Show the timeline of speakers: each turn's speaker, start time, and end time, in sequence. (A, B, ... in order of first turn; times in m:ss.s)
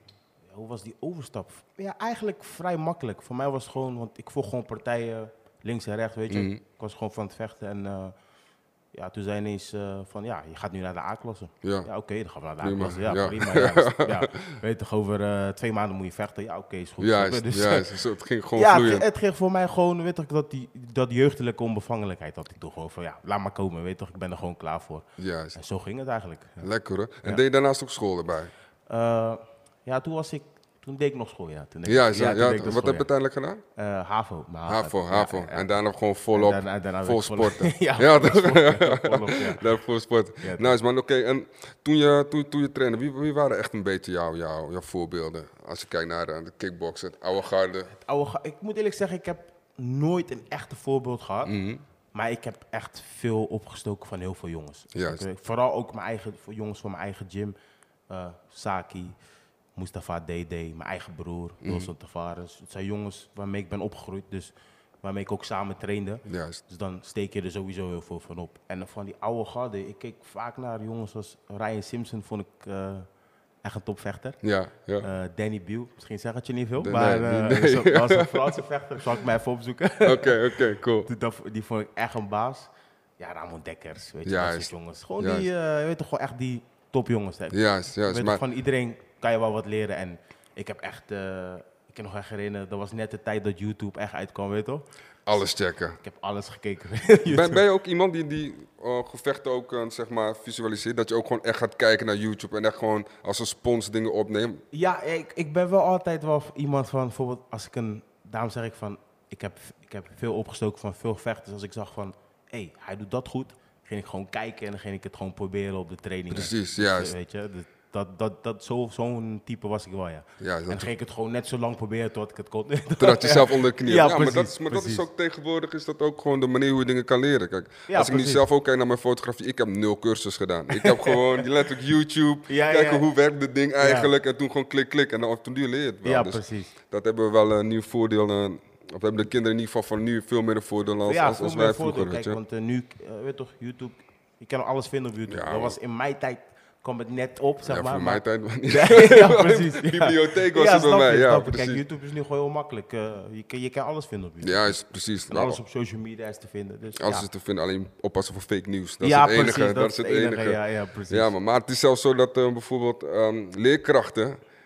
0:00.5-0:08.1 A
0:06.3-0:06.6 B
0:08.9-0:18.0 A
0:11.6-0:11.9 B
0:12.6-0:14.5 B
0:17.0-0:19.0 B
0:18.6-0:26.7 A
0:25.2-0:25.6 B
0:26.6-0:28.5 B
0:28.9-0:33.1 A
0:31.8-0:33.6 B
0:33.8-0:35.7 A
0:34.7-0:47.9 B
0:36.3-0:39.7 A
0:40.4-0:40.7 A
0:47.9-0:51.5 A
0:51.4-0:51.8 B
0:52.1-0:57.5 A
0:54.9-0:55.2 B
0:58.1-0:59.1 A
0:59.8-1:13.1 A
1:01.6-1:01.9 B
1:06.2-1:06.6 B
1:13.6-1:14.4 A
1:14.4-1:15.0 B
1:15.0-1:34.8 A
1:16.8-1:18.6 B
1:20.0-1:21.1 B
1:24.2-1:25.5 B
1:27.5-1:28.4 B
1:35.2-1:36.0 B
1:36.0-1:37.6 A
1:37.3-1:44.6 B
1:44.7-2:05.0 A
1:56.3-1:57.1 B
2:00.4-2:00.9 B
2:03.0-2:22.4 B
2:07.9-2:08.4 A
2:10.7-2:11.4 A
2:12.5-2:13.0 A
2:13.8-2:14.1 A
2:16.0-2:16.7 A
2:21.1-2:37.3 A
2:25.3-2:25.7 B
2:27.6-2:31.8 B
2:34.4-2:35.6 B
2:37.0-2:40.6 B
2:39.0-2:41.3 A
2:41.1-2:44.4 B